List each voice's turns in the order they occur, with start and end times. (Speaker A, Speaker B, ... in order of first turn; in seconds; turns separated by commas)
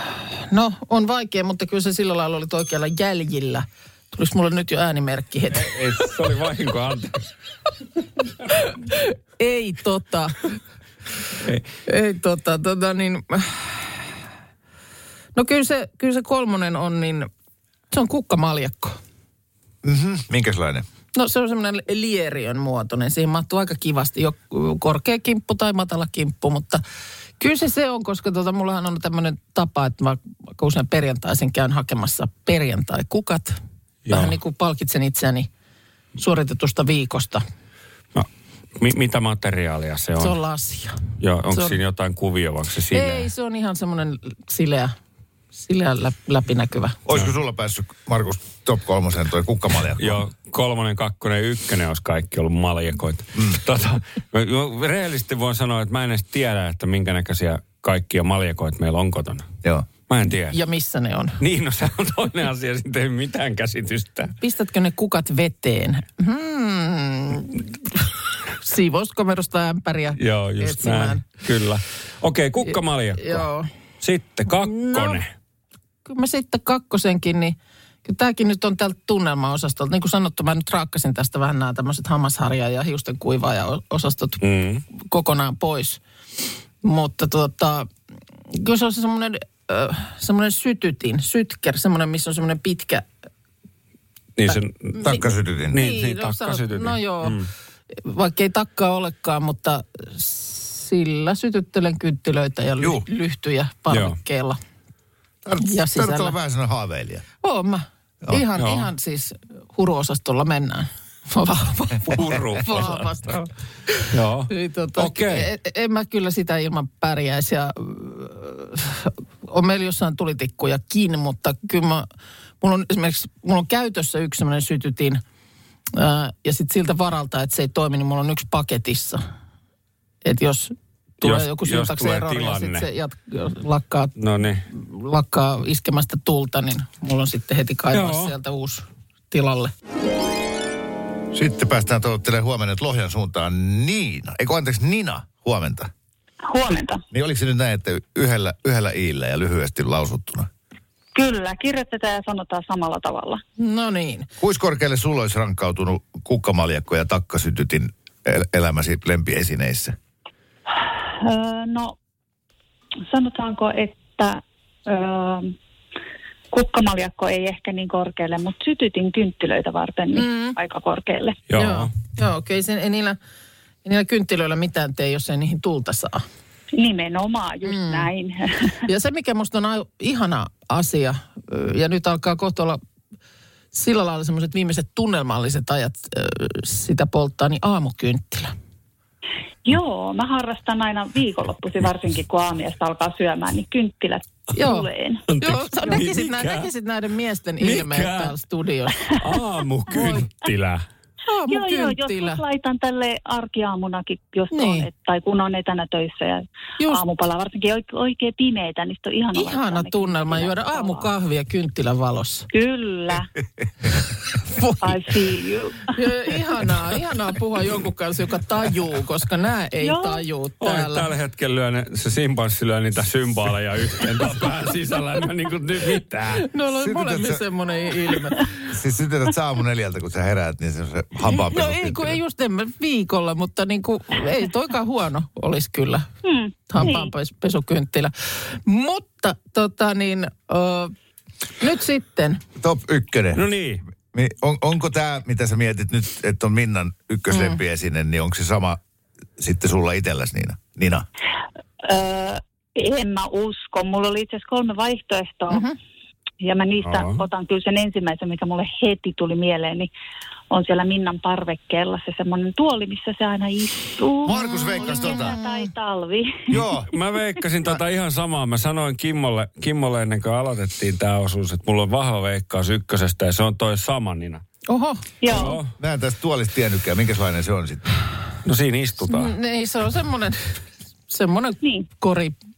Speaker A: 0.4-5.6, Speaker B: 5.5-7.2, Speaker A: 8.5-10.4, Speaker A: 11.9-14.1, Speaker A: 15.3-17.3, Speaker A: 17.9-19.0, Speaker C: 19.8-20.9, Speaker A: 21.1-26.8, Speaker A: 27.4-33.6, Speaker B: 34.1-34.4, Speaker A: 34.1-35.5, Speaker A: 36.2-37.4, Speaker B: 38.1-40.4, Speaker A: 40.2-41.0, Speaker B: 41.2-43.3, Speaker A: 41.5-41.8, Speaker A: 42.9-44.9, Speaker A: 45.5-47.0, Speaker C: 47.1-50.2, Speaker B: 49.9-59.5, Speaker B: 60.0-60.6, Speaker A: 60.5-61.4, Speaker B: 61.4-64.3, Speaker A: 64.4-71.3, Speaker B: 70.1-73.5, Speaker A: 73.2-73.7, Speaker B: 74.0-75.3, Speaker A: 74.5-75.2, Speaker A: 76.0-84.4, Speaker B: 84.4-84.8, Speaker A: 85.0-86.0, Speaker A: 86.8-87.9, Speaker A: 88.5-93.1, Speaker B: 94.4-95.0, Speaker A: 94.5-97.4, Speaker C: 95.0-95.8, Speaker B: 95.7-97.5, Speaker A: 97.9-104.6, Speaker B: 103.9-104.2, Speaker C: 105.5-107.2, Speaker A: 105.6-106.4, Speaker A: 107.4-122.1, Speaker B: 108.3-108.9, Speaker B: 112.1-113.1, Speaker B: 114.1-115.5, Speaker A: 122.6-125.2, Speaker A: 125.9-129.2, Speaker A: 130.2-134.1, Speaker B: 131.2-132.9, Speaker B: 134.2-134.7, Speaker A: 134.7-139.7, Speaker B: 137.9-138.3, Speaker C: 141.3-145.9, Speaker D: 146.4-147.0, Speaker C: 147.1-150.5, Speaker D: 151.2-153.4, Speaker A: 153.6-154.3, Speaker C: 154.4-159.9, Speaker D: 160.8-161.9, Speaker D: 163.1-165.5, Speaker D: 166.5-171.4, Speaker A: 170.1-170.6, Speaker B: 171.5-171.9, Speaker A: 171.6-173.2, Speaker A: 173.8-176.2, Speaker D: 176.8-178.8, Speaker A: 177.7-178.1, Speaker A: 178.9-182.8, Speaker A: 183.7-188.5, Speaker D: 189.7-195.2, Speaker A: 194.5-194.9, Speaker B: 195.3-196.7, Speaker A: 195.4-199.1, Speaker B: 197.6-198.4, Speaker B: 199.2-200.8, Speaker A: 201.3-202.4, Speaker D: 201.5-211.1, Speaker A: 204.5-204.9, Speaker A: 209.3-212.5, Speaker D: 212.5-213.3, Speaker A: 214.4-215.2, Speaker D: 214.8-216.0, Speaker A: 215.9-221.1, Speaker D: 219.8-220.2, Speaker B: 220.6-226.4, Speaker A: 226.3-228.5, Speaker C: 226.7-227.4, Speaker C: 228.6-232.2, Speaker A: 231.3-236.1, Speaker D: 236.2-237.1, Speaker A: 236.7-240.9, Speaker A: 241.6-242.4, Speaker C: 242.6-243.4, Speaker B: 243.3-243.8, Speaker C: 244.1-248.8, Speaker A: 247.3-247.6, Speaker C: 249.4-251.1, Speaker D: 251.8-255.7, Speaker A: 255.5-255.8, Speaker D: 256.4-259.9, Speaker B: 256.8-257.2, Speaker D: 260.5-266.6, Speaker C: 264.2-265.4, Speaker A: 265.0-265.7, Speaker C: 266.5-266.9, Speaker B: 266.9-274.4, Speaker A: 274.7-275.1, Speaker D: 275.2-275.6, Speaker B: 275.3-275.7, Speaker C: 275.8-277.9, Speaker B: 278.4-279.3, Speaker A: 279.1-280.6, Speaker A: 281.1-282.4